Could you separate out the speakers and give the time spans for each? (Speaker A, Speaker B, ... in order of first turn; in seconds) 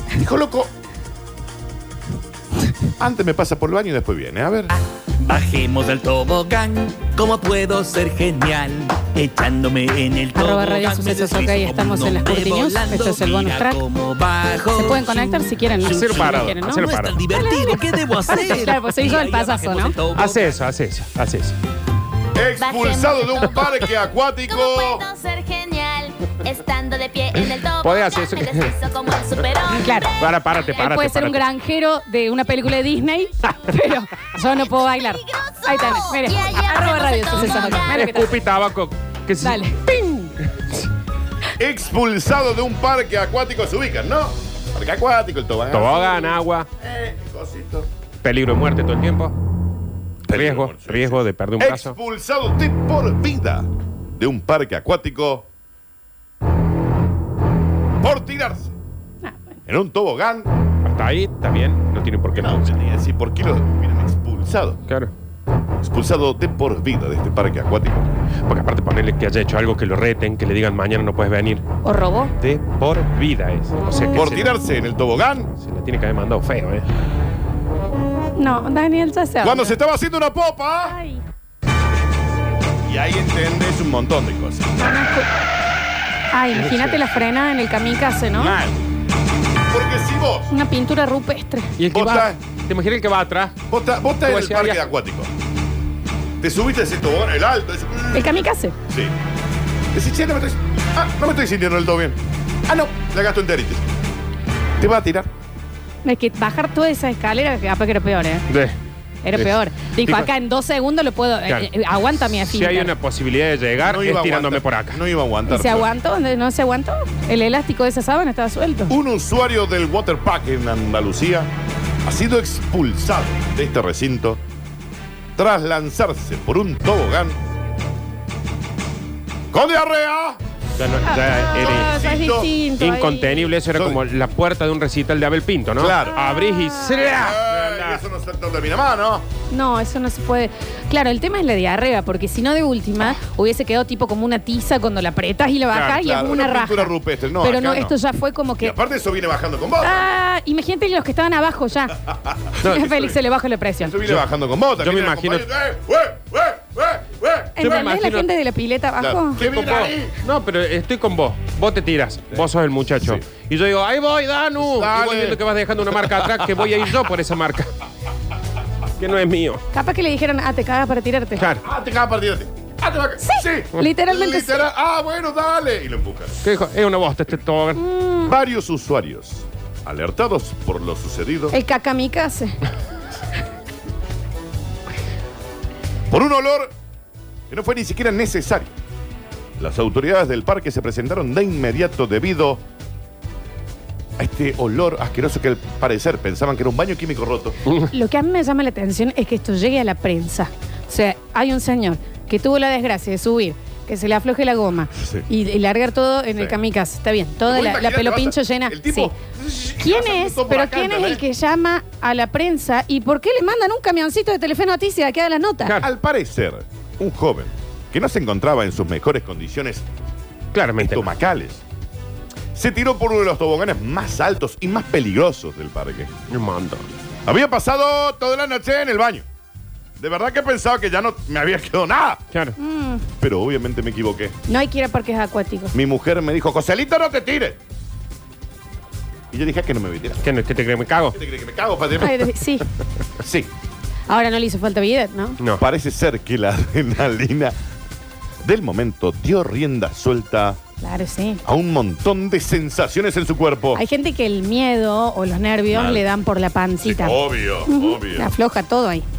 Speaker A: 0.1-0.7, 3.0-4.8, 22.3-25.0, 41.5-47.9, 50.3-55.5, 58.0-58.7, 59.6-60.5, 62.3-64.8, 65.8-68.1, 74.1-75.5, 79.4-81.0, 82.8-84.9, 88.4-88.7, 89.7-90.5, 91.9-92.4, 93.7-95.3, 96.4-99.1, 99.9-103.8, 104.8-105.3, 113.8-115.9, 118.9-121.5, 122.0-124.4, 125.3-127.4, 129.5-130.4, 131.5-132.5, 133.7-134.0, 135.8-136.2, 137.0-139.2, 146.0-147.9, 148.6-150.0, 152.1-153.1, 153.8-157.6, 159.0-160.2, 164.6-165.4, 165.9-166.5, 171.6-176.3, 178.2-181.6, 186.1-186.7, 187.5-188.7, 189.6-192.6, 194.2-197.5, 204.9-205.2, 207.4-211.2, 215.8-219.8, 220.8-221.6, 222.5-226.1, 227.2-229.2, 230.0-232.2, 233.2-234.3, 235.7-237.6, 239.3-240.2, 241.1-242.3, 243.2-243.5, 245.6-247.5, 248.4-250.6, 251.4-253.8, 255.7-256.0, 256.8-258.3
Speaker B: 5.2-20.6
Speaker C: 10.3-13.8, 14.7-20.0, 29.7-30.1, 30.8-38.3, 39.4-39.8, 59.2-59.5, 71.8-72.3, 78.4-79.7, 80.9-81.2, 84.8-85.3, 86.3-88.5, 90.5-91.7, 98.1-98.7, 106.0-108.5, 109.2-112.9, 115.5-118.9, 131.0-133.5, 136.4-137.0, 139.5-148.7, 149.8-152.1, 152.6-153.9, 157.6-159.4, 169.7-171.4, 173.2-174.7, 177.8-178.3, 181.5-182.6, 197.9-209.1, 209.8-215.7, 232.6-233.0, 234.5-235.7, 242.0-242.7, 244.1-245.4, 250.8-251.4, 253.7-259.1
Speaker D: 15.8-17.2, 20.1-21.6, 27.3-28.8, 30.0-31.4, 37.7-40.8, 45.7-46.7, 48.2-49.3, 50.3-52.0, 60.8-62.7, 68.5-71.6, 72.4-74.6, 75.6-76.8, 86.5-87.0, 91.8-93.5, 94.2-94.8, 108.5-108.8, 109.3-110.3, 112.3-115.0, 130.8-131.9, 132.8-138.0, 145.7-146.0, 152.6-152.9, 154.8-155.5, 157.6-158.3, 159.4-167.7, 169.0-169.6, 176.4-177.8, 220.5-221.1, 226.3-226.8, 240.2-241.2
Speaker E: 22.6-23.9, 24.5-30.0, 30.6-30.9, 34.6-38.1